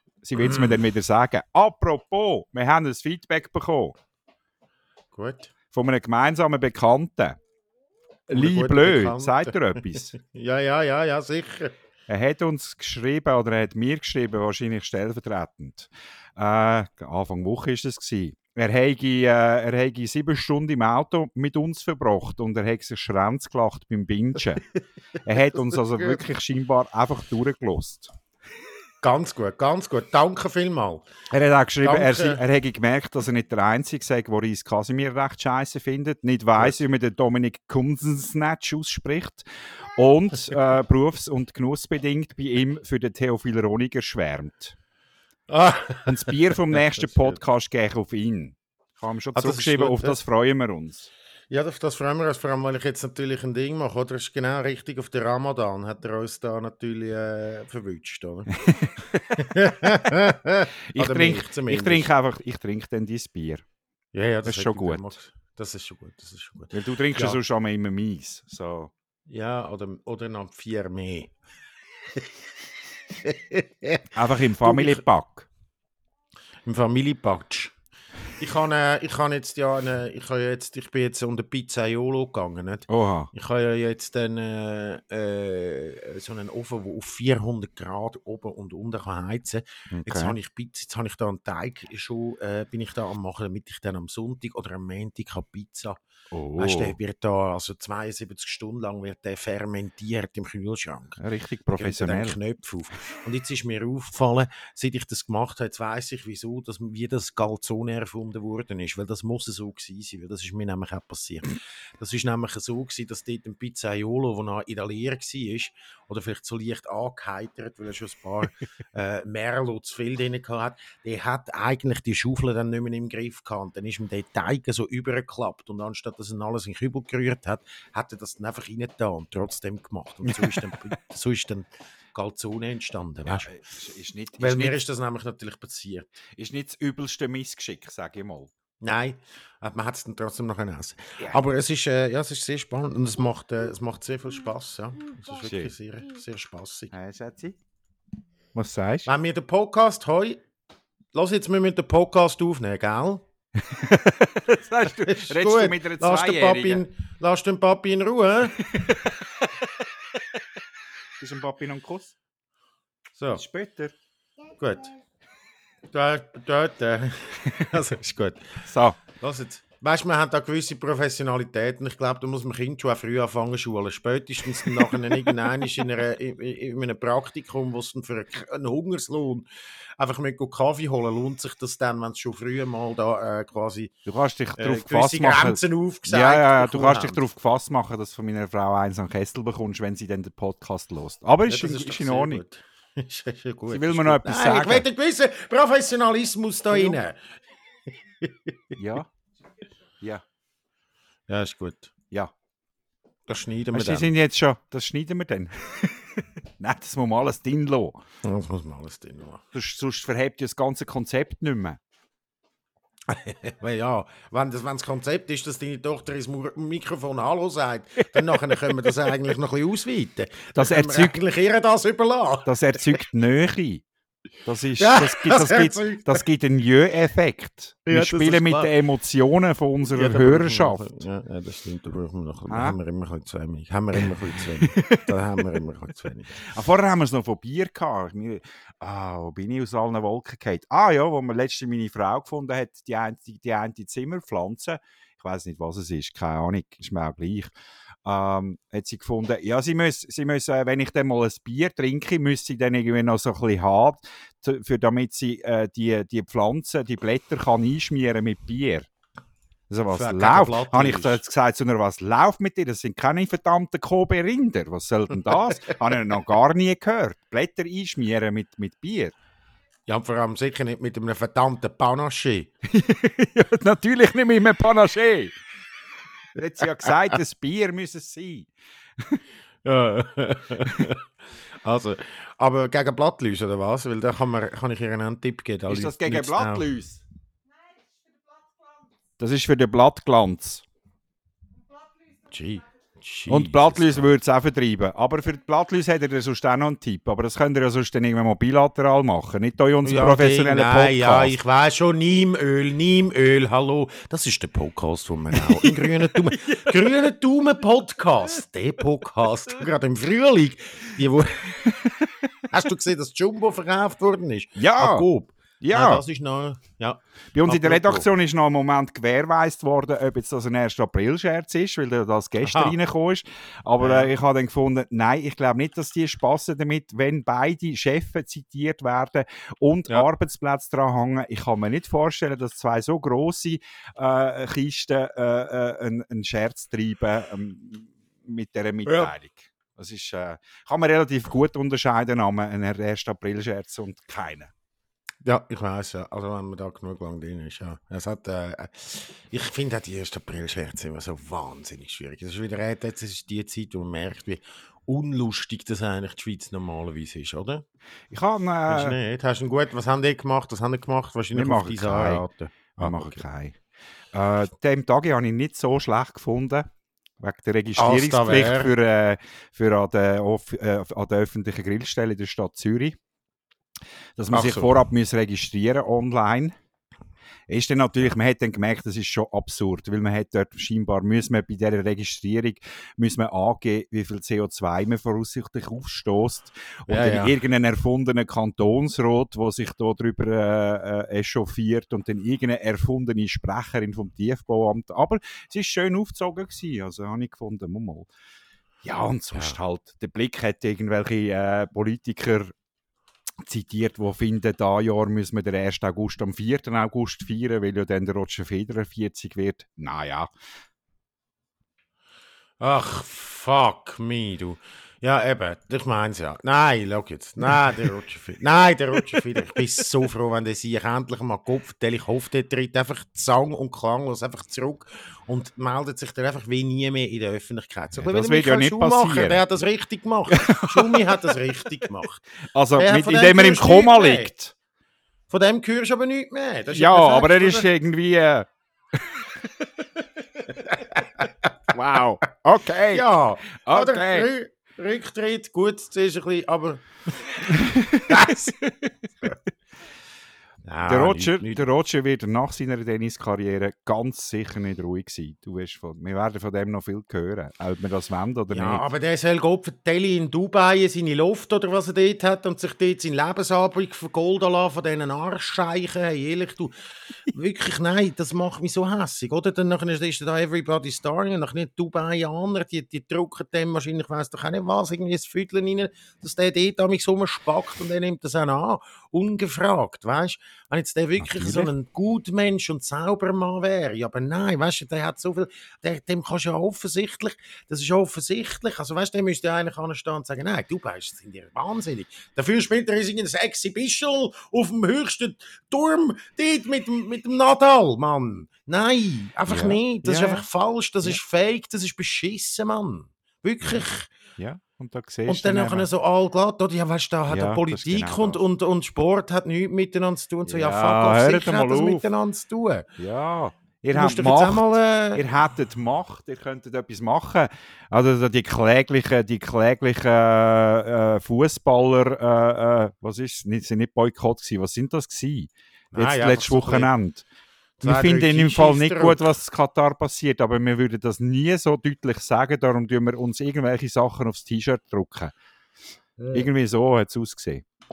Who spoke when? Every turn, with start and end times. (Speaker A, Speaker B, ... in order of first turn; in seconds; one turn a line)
Speaker A: 0.2-4.0
Speaker B: 0.4-0.8
Speaker B: 5.1-5.5
Speaker A: 5.7-7.4
Speaker A: 8.3-10.1
Speaker B: 8.3-11.7
Speaker A: 12.1-24.6
Speaker A: 25.2-28.1
Speaker B: 29.0-31.3
Speaker A: 31.3-44.8
Speaker B: 31.8-32.4
Speaker B: 45.5-47.4
Speaker A: 46.0-51.1
Speaker B: 49.3-50.2
Speaker B: 51.5-62.1
Speaker A: 58.6-59.4
Speaker A: 60.9-63.6
Speaker B: 64.1-67.4
Speaker A: 64.4-65.1
Speaker A: 66.7-68.9
Speaker B: 69.3-71.3
Speaker B: 73.1-74.1
Speaker A: 74.1-75.5
Speaker B: 74.6-75.0
Speaker B: 76.6-77.7
Speaker B: 78.4-96.0
Speaker A: 82.9-83.3
Speaker A: 89.9-90.3
Speaker A: 96.3-97.0
Speaker B: 96.6-101.2
Speaker A: 101.2-102.4
Speaker B: 101.8-133.5
Speaker A: 130.3-130.8
Speaker A: 133.2-134.8
Speaker B: 134.4-136.1
Speaker A: 136.4-138.5
Speaker B: 138.8-146.9
Speaker A: 145.4-145.7
Speaker A: 146.9-147.6
Speaker A: 148.5-149.1
Speaker B: 149.1-150.4
Speaker B: 151.1-153.2
Speaker A: 153.6-156.8
Speaker B: 154.8-158.7
Speaker A: 158.6-159.8
Speaker A: 161.2-162.1
Speaker B: 163.2-163.4
Speaker A: 163.3-163.9
Speaker B: 164.5-164.9
Speaker B: 165.9-179.4
Speaker A: 168.7-169.0
Speaker B: 180.0-184.0
Speaker A: 184.1-192.4
Speaker B: 184.6-187.2
Speaker B: 191.5-197.2
Speaker A: 193.7-194.8
Speaker A: 196.7-197.0
Speaker B: 198.2-198.8
Speaker A: 198.8-199.1
Speaker B: 201.3-201.9
Speaker B: 203.3-204.1
Speaker A: 203.7-208.0
Speaker B: 208.2-209.4
Speaker A: 209.5-211.8
Speaker B: 213.1-223.0
Speaker A: 218.3-219.1
Speaker A: 220.6-221.2
Speaker A: 222.5-223.8
Speaker A: 224.4-230.9
Speaker B: 224.8-226.2
Speaker B: 227.8-228.7
Speaker B: 229.9-236.4
Speaker A: 232.5-232.8
Speaker A: 234.0-235.2
Speaker A: 236.4-247.5
Speaker A: 248.0-258.9
Speaker A: 259.7-269.1
Speaker B: 259.9-261.2
Speaker B: 269.9-272.5
Speaker A: 272.7-275.3
Speaker A: 276.4-279.2
Speaker B: 279.6-286.7
Speaker A: 280.6-280.9
Speaker A: 285.7-287.0
Speaker A: 289.2-290.6
Speaker B: 292.2-294.1
Speaker A: 293.3-301.4
Speaker B: 299.8-311.7
Speaker A: 305.3-307.0
Speaker A: 309.0-309.6
Speaker A: 311.5-312.3
Speaker B: 312.5-318.1
Speaker A: 314.6-315.1
Speaker A: 315.6-316.0
Speaker A: 317.3-344.5
Speaker B: 322.4-322.8
Speaker B: 323.8-324.1
Speaker B: 338.9-339.1
Speaker B: 345.2-357.6
Speaker A: 358.1-359.0
Speaker B: 358.7-363.2
Speaker A: 361.3-363.6
Speaker A: 364.1-373.0
Speaker B: 367.8-368.7
Speaker A: 374.2-376.5
Speaker B: 374.3-374.7
Speaker A: 377.5-398.1
Speaker B: 386.9-387.3
Speaker A: 398.8-402.5
Speaker B: 399.3-399.6
Speaker A: 403.4-410.3
Speaker B: 412.6-434.3
Speaker A: 428.0-429.4
Speaker A: 430.3-431.4
Speaker A: 432.5-434.5
Speaker B: 435.3-437.7
Speaker A: 436.7-440.5
Speaker B: 440.5-441.3
Speaker A: 441.7-443.0
Speaker B: 442.9-448.6
Speaker A: 443.6-444.3
Speaker A: 447.5-448.8
Speaker B: 450.6-451.7
Speaker A: 450.9-458.8
Speaker B: 458.5-504.1
Speaker A: 481.2-481.7
Speaker A: 499.5-500.5
Speaker A: 504.4-505.9
Speaker B: 505.3-512.9
Speaker A: 507.3-508.4
Speaker A: 510.4-512.0
Speaker A: 513.0-527.2
Speaker B: 513.9-515.3
Speaker B: 525.9-526.9
Speaker B: 527.8-529.2
Speaker A: 527.8-535.3
Speaker A: 536.3-537.6